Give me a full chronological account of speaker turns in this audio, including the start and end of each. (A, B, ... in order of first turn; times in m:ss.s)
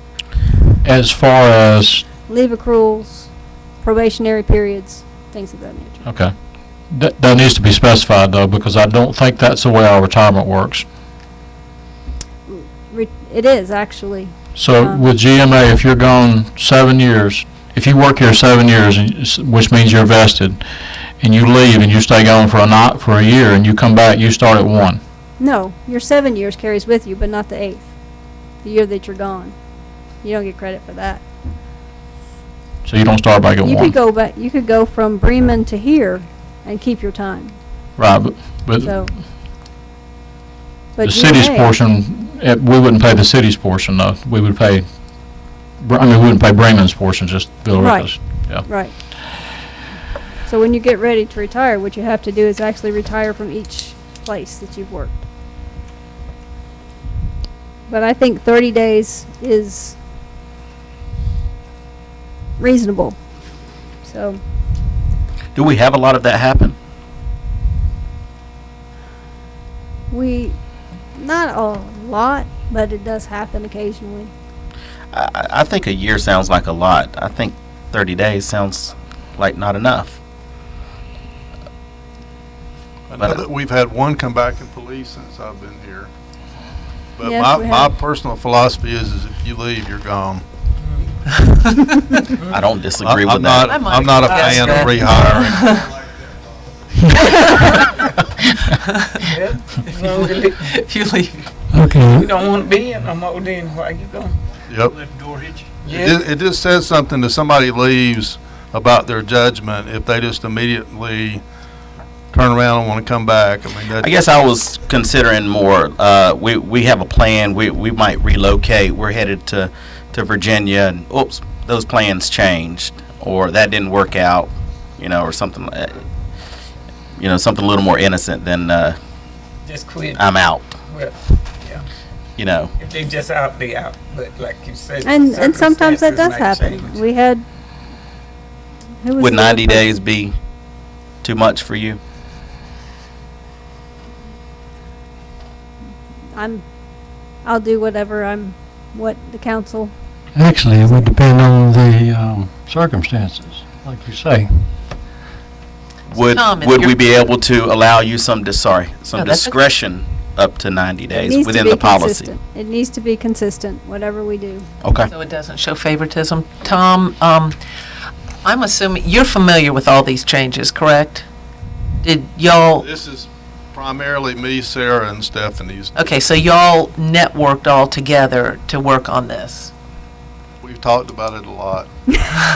0:00.8-0:02.0 A
0:02.3-0:03.3 B
0:03.8-0:06.0 B
0:06.0-0:06.3 A
0:06.9-0:10.9 A
0:12.5-0:15.0 B
0:14.6-0:20.7 A
0:21.2-0:25.0 A
0:25.4-0:27.9 B
0:28.6-0:29.5 B
0:30.2-0:31.2 B
0:32.8-0:33.9 A
0:33.6-0:37.6 B
0:38.0-0:39.2 A
0:38.8-0:39.1 B
0:41.0-0:41.7 B
0:41.0-0:45.1 A
0:45.8-0:48.7 A
0:47.8-0:49.0 B
0:50.5-0:55.2 B
0:57.9-1:00.0 B
1:02.6-1:03.2 B
1:04.0-1:04.4 B
1:05.6-1:06.8 C
1:10.1-1:10.6 B
1:11.2-1:14.3 B
1:15.1-1:20.2 C
1:23.1-1:26.1 D
1:23.2-1:23.4 C
1:27.2-1:30.4 D
1:27.2-1:27.9 B
1:30.8-1:31.2 E
1:31.4-1:32.2 F
1:32.5-1:33.9 C
1:33.0-1:35.7 D
1:33.6-1:35.9 F
1:34.2-1:34.9 E
1:39.3-1:40.7 E
1:40.0-1:41.5 F
1:41.7-1:42.3 G
1:42.1-1:44.4 E
1:44.7-1:45.0 D
1:45.8-1:46.2 E
1:45.9-1:51.4 D
1:52.3-1:54.2 D
1:54.0-2:06.0 C
2:07.2-2:09.0 C
2:09.6-2:10.3 E
2:10.2-2:10.7 C
2:10.9-2:11.8 E
2:12.4-2:12.7 C
2:12.8-2:17.0 E
2:15.0-2:17.4 B
2:19.0-2:20.0 B
2:19.2-2:20.3 C
2:21.2-2:22.0 C
2:26.4-2:26.6 B
2:27.4-2:29.9 B
2:30.3-2:34.7 G
2:30.8-2:31.1 B
2:36.1-2:42.3 C
2:36.2-2:37.2 F
2:39.2-2:39.6 F
2:41.2-2:44.7 B
2:44.8-2:45.1 C
2:45.1-2:47.6 F
2:48.4-2:51.3 F
2:52.0-2:52.9 F
2:52.8-2:56.0 D
2:56.0-2:59.7 F
3:00.6-3:01.9 D